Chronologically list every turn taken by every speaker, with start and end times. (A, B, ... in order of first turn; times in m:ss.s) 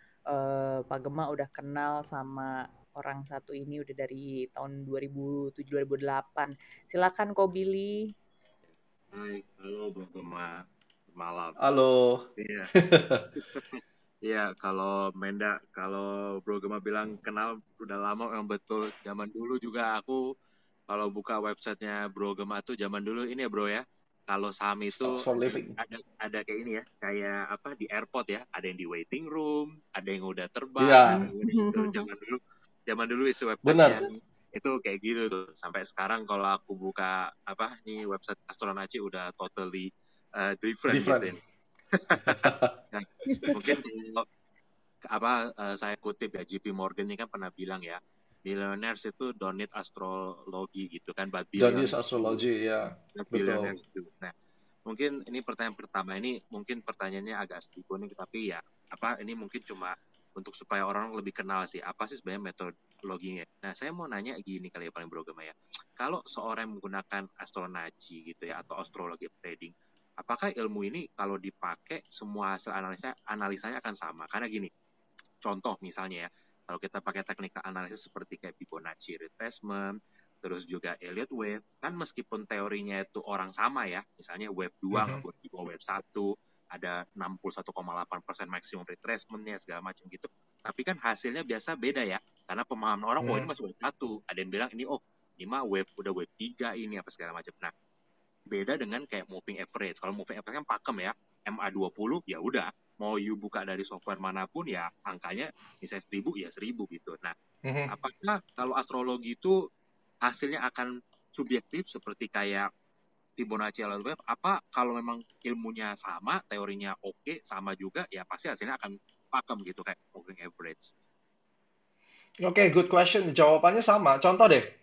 0:00.3-0:08.1 A
0:09.1-0:11.6 B
0:11.6-0:13.3 C
0:12.4-0:12.7 B
0:13.4-0:20.2 B
0:20.9-0:41.4 B
0:24.9-0:25.8 C
0:30.8-0:31.2 C
0:31.0-0:32.0 A
0:33.6-0:34.0 C
0:40.9-0:41.3 C
0:41.9-0:42.4 B
0:42.2-0:42.7 C
0:42.9-0:44.2 B
0:43.3-0:43.6 A
0:45.1-0:52.4 B
0:51.6-0:53.7 C
0:53.1-0:54.3 B
0:54.9-1:14.7 B
1:15.4-1:37.7 B
1:24.9-1:25.2 C
1:33.2-1:33.5 C
1:38.5-1:47.3 B
1:47.6-1:47.9 C
1:47.9-1:49.5 B
1:50.2-1:52.6 B
1:53.4-2:00.9 B
2:02.4-2:04.6 C